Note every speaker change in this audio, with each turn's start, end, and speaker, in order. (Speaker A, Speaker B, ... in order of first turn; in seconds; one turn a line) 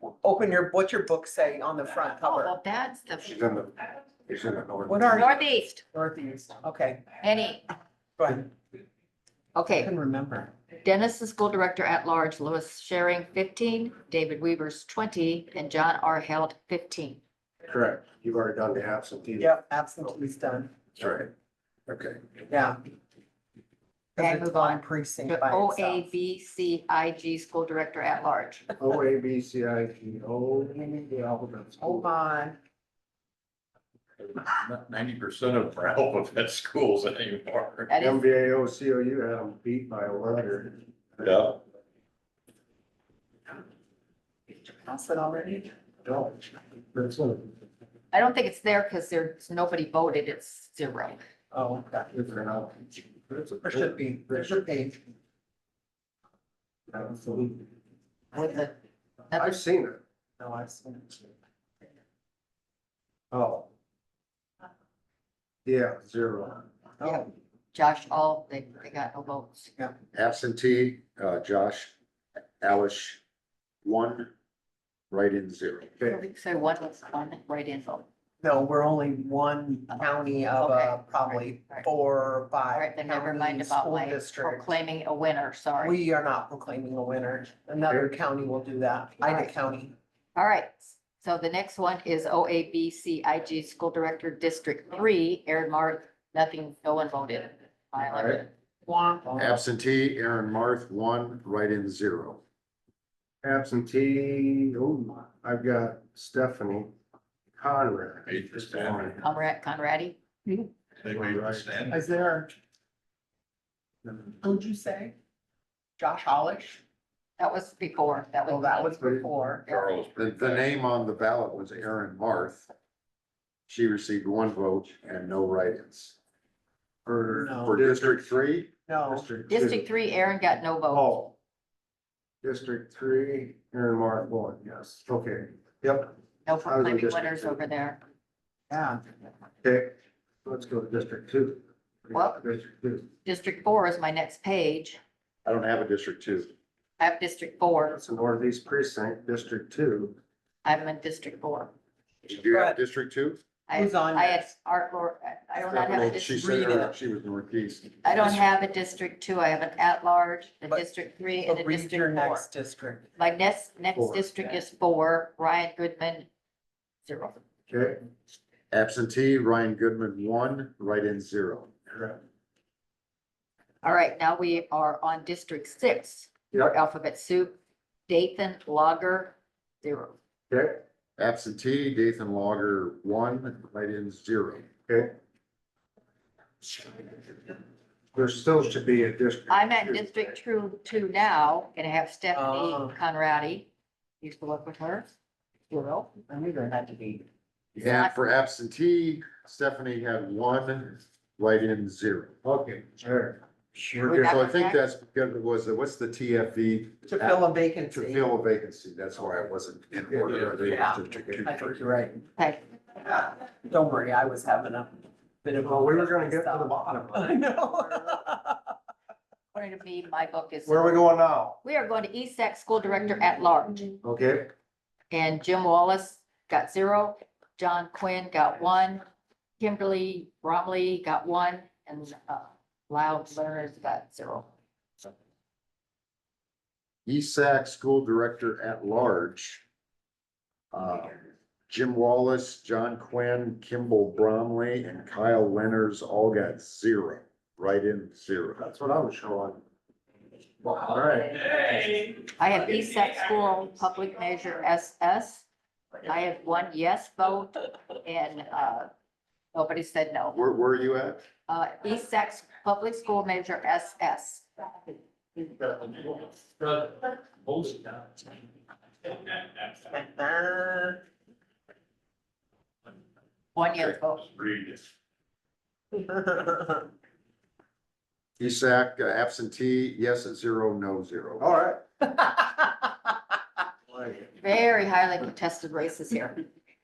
Speaker A: 0.2-2.6
Speaker B: 2.2-3.4
Speaker C: 3.3-5.3
Speaker A: 4.9-5.4
Speaker B: 5.1-5.8
Speaker A: 5.9-7.1
Speaker B: 7.2-7.7
Speaker A: 8.2-8.5
Speaker B: 9.6-9.9
Speaker A: 9.7-10.5
Speaker B: 10.8-17.2
Speaker C: 17.7-19.6
Speaker A: 19.4-20.8
Speaker C: 21.0-21.3
Speaker C: 21.9-22.2
Speaker A: 22.5-22.8
Speaker A: 24.2-26.1
Speaker B: 24.2-28.7
Speaker C: 28.8-32.1
Speaker A: 31.8-32.6
Speaker D: 34.4-37.9
Speaker B: 37.9-38.3
Speaker C: 38.0-41.5
Speaker D: 41.2-41.6
Speaker A: 44.6-45.7
Speaker C: 46.0-47.5
Speaker B: 48.1-51.2
Speaker A: 51.5-52.1
Speaker C: 52.1-54.6
Speaker A: 53.6-55.0
Speaker C: 56.9-57.6
Speaker B: 58.3-58.7
Speaker B: 59.3-59.6
Speaker C: 59.3-60.0
Speaker A: 60.4-61.2
Speaker C: 63.3-63.7
Speaker C: 65.7-66.7
Speaker A: 67.0-67.3
Speaker B: 67.0-69.7
Speaker E: 70.1-71.9
Speaker E: 72.6-73.2
Speaker E: 73.8-74.3
Speaker E: 75.1-75.9
Speaker B: 76.0-78.0
Speaker A: 78.4-84.8
Speaker B: 79.9-81.8
Speaker B: 82.7-86.0
Speaker A: 85.8-89.9
Speaker B: 90.3-98.5
Speaker C: 98.1-98.4
Speaker A: 98.8-99.6
Speaker E: 99.4-102.4
Speaker C: 103.4-106.9
Speaker C: 107.5-109.2
Speaker D: 108.3-109.2
Speaker B: 109.2-110.2
Speaker D: 111.0-112.0
Speaker C: 111.2-111.7
Speaker A: 111.9-112.5
Speaker A: 114.4-115.2
Speaker A: 116.0-116.8
Speaker B: 117.4-119.9
Speaker A: 118.5-119.7
Speaker D: 119.7-120.8
Speaker E: 120.2-122.7
Speaker E: 123.7-126.2
Speaker C: 127.1-128.3
Speaker A: 127.3-127.8
Speaker E: 127.6-128.7
Speaker A: 128.9-129.3
Speaker C: 129.1-129.9
Speaker B: 129.5-131.2
Speaker C: 130.9-131.3
Speaker C: 132.4-136.1
Speaker B: 136.4-138.0
Speaker C: 136.6-137.6
Speaker A: 138.7-139.0
Speaker C: 139.6-139.9
Speaker C: 140.4-143.1
Speaker B: 142.1-142.4
Speaker B: 143.2-145.0
Speaker E: 145.4-146.5
Speaker B: 147.0-148.0
Speaker C: 147.9-150.2
Speaker B: 150.6-151.7
Speaker E: 152.3-153.4
Speaker A: 152.5-152.8
Speaker B: 153.7-156.9
Speaker A: 153.7-154.5
Speaker E: 155.7-158.4
Speaker B: 158.0-162.5
Speaker A: 161.4-163.0
Speaker B: 163.2-166.3
Speaker C: 164.0-164.3
Speaker B: 167.1-167.4
Speaker C: 167.7-168.0
Speaker E: 168.7-171.8
Speaker B: 173.8-177.6
Speaker B: 178.1-180.2
Speaker C: 180.5-180.8
Speaker E: 181.2-184.7
Speaker C: 184.9-185.2
Speaker C: 188.2-190.1
Speaker B: 189.5-193.7
Speaker A: 192.3-193.0
Speaker B: 194.2-195.1
Speaker B: 195.7-196.1
Speaker A: 196.3-197.2
Speaker E: 197.8-202.4
Speaker B: 197.8-198.2
Speaker C: 202.4-203.4
Speaker B: 204.0-204.8
Speaker E: 204.0-211.6
Speaker A: 207.1-208.3
Speaker C: 210.1-211.4
Speaker D: 210.5-210.8
Speaker A: 210.7-212.2
Speaker A: 213.0-218.7
Speaker C: 215.6-218.1
Speaker B: 219.5-221.0
Speaker C: 220.7-221.6
Speaker B: 221.6-224.0
Speaker C: 224.0-224.5
Speaker B: 225.1-229.0
Speaker B: 229.6-234.5
Speaker E: 237.1-239.6
Speaker E: 240.7-248.7
Speaker C: 248.6-249.6
Speaker C: 250.7-251.4
Speaker B: 251.4-255.5
Speaker B: 256.1-258.9
Speaker B: 259.5-260.4
Speaker E: 260.3-261.3
Speaker B: 261.5-264.5
Speaker B: 265.4-265.7
Speaker A: 269.8-271.0
Speaker B: 273.6-274.4
Speaker D: 274.4-274.8
Speaker A: 275.9-276.9
Speaker E: 278.4-281.5
Speaker C: 281.4-281.8
Speaker C: 283.9-284.3
Speaker B: 284.4-286.4